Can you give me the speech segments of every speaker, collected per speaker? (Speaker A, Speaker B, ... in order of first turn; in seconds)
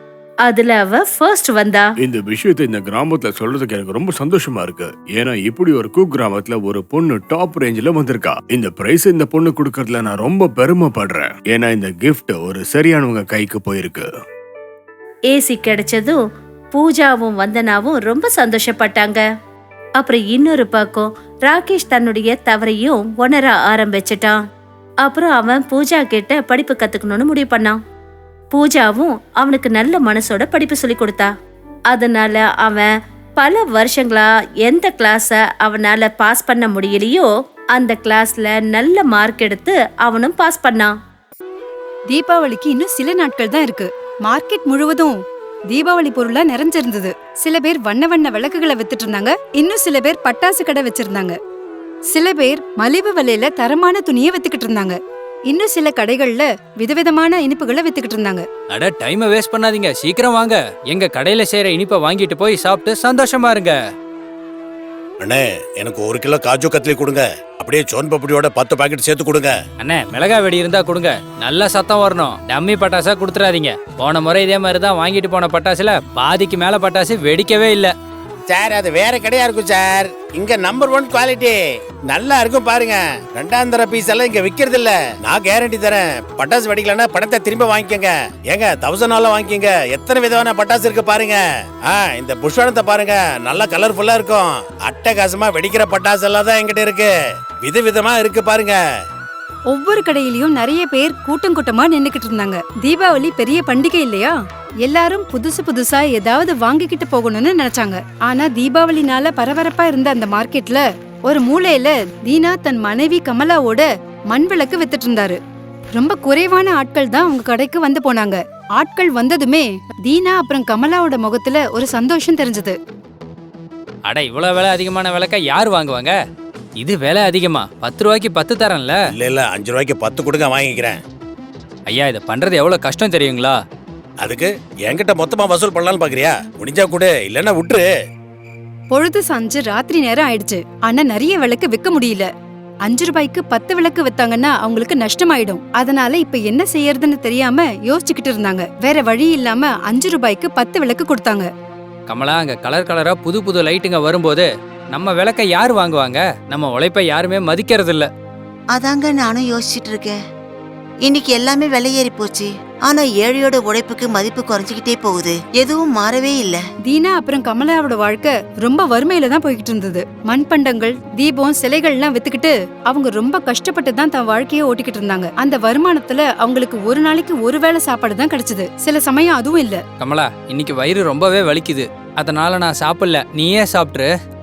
Speaker A: 0.5-1.9, 15.3-16.2, 16.7-19.3, 20.0-24.4, 25.0-27.8, 28.5-31.3, 31.9-41.0
Speaker B: 2.0-14.1
Speaker C: 42.1-45.2, 45.7-51.4, 52.1-58.5, 99.7-115.4, 115.9-122.8, 138.9-142.3, 142.8-151.5, 166.8-179.8
Speaker D: 58.7-63.8, 69.8-77.9, 124.1-126.2, 126.8-129.0, 131.9-133.6, 152.1-158.1, 180.0-184.1
Speaker E: 65.2-69.5, 78.5-81.6, 82.1-97.1, 97.6-98.8, 129.2-131.0, 134.2-137.9
Speaker F: 158.8-160.2, 161.1-166.6